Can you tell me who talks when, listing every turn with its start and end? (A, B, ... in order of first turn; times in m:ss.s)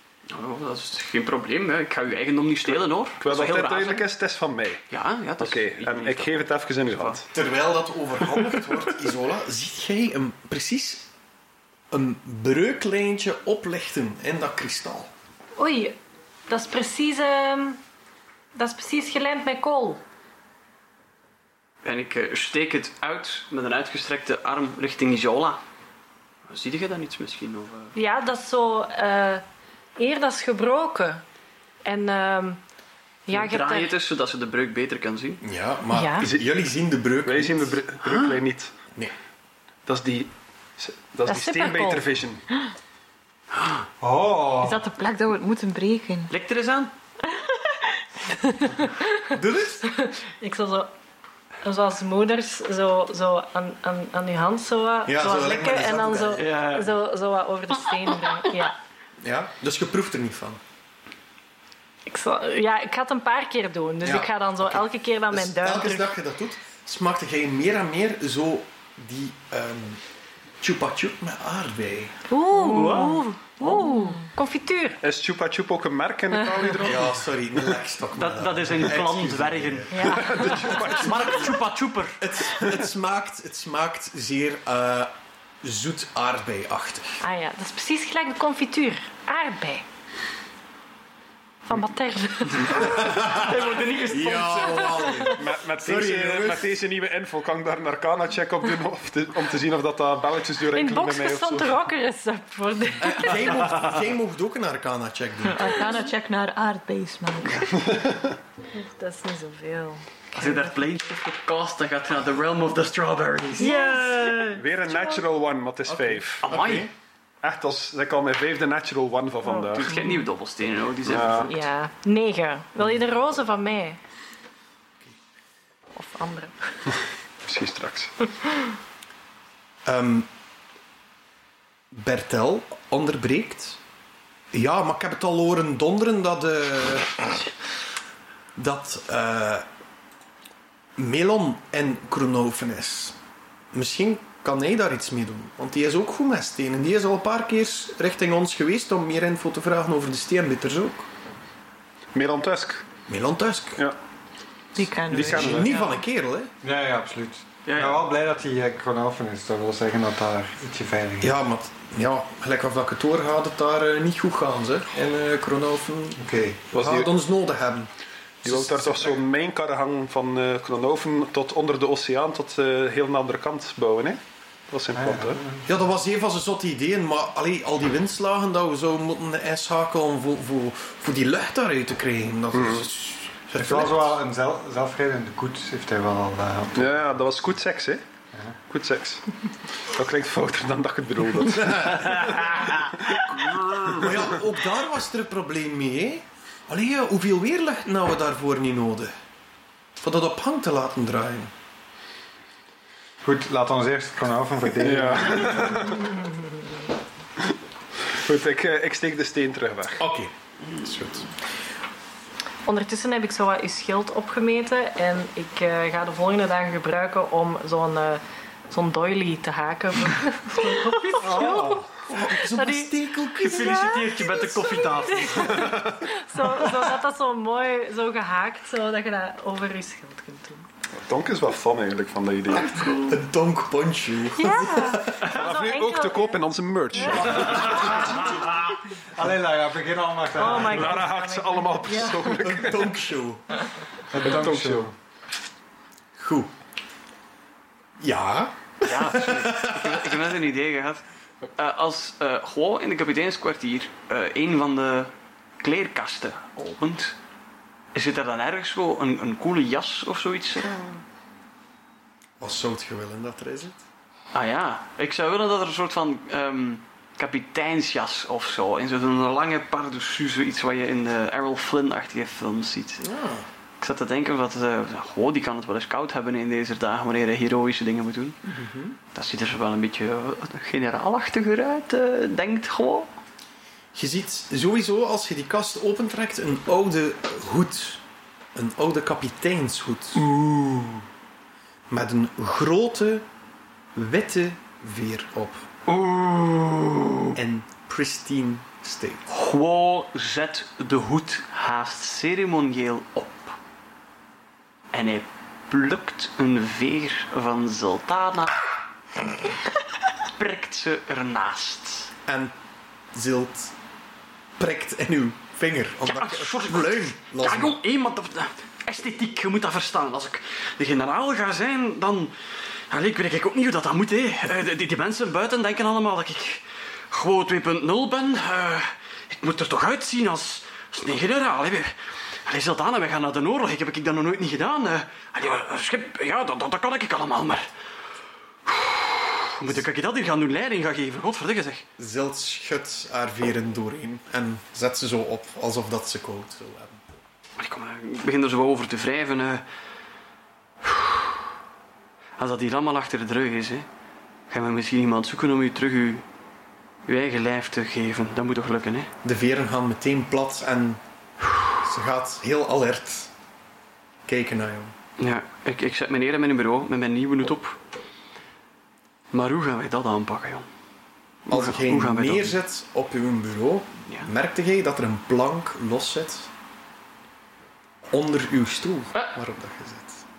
0:00.3-0:04.0 A
0:03.2-0:04.8 B
0:04.9-0:07.2 A
0:05.4-0:07.3 B
0:07.3-0:11.1 C
0:11.9-0:15.1 C
0:15.6-0:16.0 D
0:16.5-0:17.8 D
0:18.6-0:20.0 D
0:21.8-0:25.6 A
0:26.5-0:27.9 A
0:28.0-0:29.4 D
0:30.0-0:31.2 D
0:31.8-0:32.6 D
0:33.3-0:33.9 D
0:33.3-0:35.4 A
0:35.4-0:37.8 C
0:35.9-0:36.3 D
0:37.2-0:38.7 B
0:38.0-0:38.4 A
0:39.9-0:42.4 B
0:41.3-0:42.1 D
0:43.6-0:43.8 A
0:44.0-0:44.8 E
0:44.6-0:46.3 F
0:46.3-0:46.9 A
0:47.3-0:47.6 F
0:48.6-0:48.9 D
0:49.3-0:49.8 C
0:49.8-0:50.9 D
0:51.6-0:58.8 D
0:55.1-0:56.5 C
0:56.4-0:57.0 A
0:59.2-1:00.6 C
1:02.1-1:06.1 D
1:04.0-1:10.0 C
1:10.6-1:12.2 C
1:12.3-1:15.0 D
1:12.6-1:13.2 A
1:12.7-1:13.0 F
1:13.6-1:14.2 F
1:15.0-1:17.2 B
1:16.8-1:20.6 C
1:18.2-1:22.2 A
1:19.9-1:20.8 D
1:20.0-1:21.6 B
1:22.2-1:27.2 C
1:27.2-1:29.8 D
1:31.7-1:33.2 D
1:32.7-1:36.7 C
1:32.7-1:35.3 A
1:34.6-1:35.2 D
1:35.4-1:41.8 B
1:40.7-1:43.6 D
1:43.0-1:45.8 C
1:45.5-1:48.0 F
1:47.8-1:48.4 B
1:48.7-1:50.7 D
1:50.3-1:54.0 A
1:53.6-1:55.2 D
1:54.5-1:56.6 B
1:55.9-1:56.9 C
1:56.4-1:56.9 A
1:57.4-1:59.9 B
1:59.5-2:00.0 D
1:59.8-2:01.7 A
2:01.0-2:01.5 B
2:01.5-2:04.0 D
2:06.0-2:06.6 D
2:07.4-2:08.1 B
2:09.9-2:10.3 C
2:11.9-2:13.8 C
2:14.5-2:17.4 C
2:18.6-2:19.7 C
2:21.0-2:23.2 C
2:23.7-2:31.1 C
2:32.1-2:32.9 B
2:33.1-2:33.8 C
2:34.8-2:35.8 F
2:35.1-2:35.8 B
2:35.1-2:36.5 C
2:36.6-2:41.4 E
2:37.7-2:38.0 A
2:41.2-2:47.9 C
2:46.2-2:46.6 E
2:46.7-2:47.1 B
2:48.4-2:49.2 C
2:48.4-2:55.4 B
2:55.0-2:55.7 E
2:55.6-3:04.2 C
3:02.5-3:02.9 B
3:03.6-3:06.9 E
3:06.8-3:08.0 B
3:08.7-3:09.2 B
3:09.9-3:14.3 B
3:11.4-3:12.7 C
3:13.9-3:19.1 C
3:20.0-3:21.5 C
3:23.2-3:26.0 E
3:24.7-3:26.2 B
3:28.1-3:30.0 B
3:30.0-3:31.3 C
3:32.7-3:50.7 D
3:41.2-3:43.8 C
3:43.4-3:45.7 A
3:45.6-3:45.9 B
3:50.9-3:53.1 B
3:52.6-3:55.2 C
3:54.3-3:56.4 D
3:55.2-3:58.4 B
3:56.9-3:57.6 D
3:59.2-4:01.1 E
4:00.4-4:02.4 D
4:00.6-4:03.0 B
4:02.3-4:03.4 C
4:04.1-4:04.9 E
4:04.2-4:04.9 B
4:06.2-4:06.5 C
4:08.0-4:10.3 C
4:08.8-4:11.0 A
4:11.6-4:17.2 A
4:17.9-4:21.0 A
4:22.4-4:23.8 C
4:24.3-4:33.0 A
4:33.0-4:33.5 C
4:33.8-4:38.5 A
4:38.5-4:39.0 C
4:39.1-4:43.1 A
4:43.9-4:48.0 C
4:48.6-4:50.3 C
4:51.9-4:53.3 C
4:54.0-4:55.7 C
4:55.9-4:57.3 A
4:57.3-4:59.2 C
4:59.3-5:03.5 A
5:04.9-5:08.6 A
5:10.3-5:12.1 A
5:12.3-5:12.5 C
5:13.1-5:13.7 C
5:14.6-5:17.8 C
5:16.1-5:22.3 A
5:22.9-5:32.0 A
5:32.5-5:37.7 A
5:38.7-5:41.9 A
5:42.0-5:47.0 C
5:47.6-5:49.6 A
5:50.8-5:51.4 A
5:52.4-5:53.9 A
5:54.5-5:56.2 A
5:57.1-5:59.1 A
5:59.2-6:01.0 C
6:01.8-6:03.3 C
6:04.3-6:04.9 C
6:05.2-6:07.8 A
6:09.3-6:10.7 A
6:11.5-6:12.6 A
6:11.5-6:16.5 C
6:18.1-6:20.2 C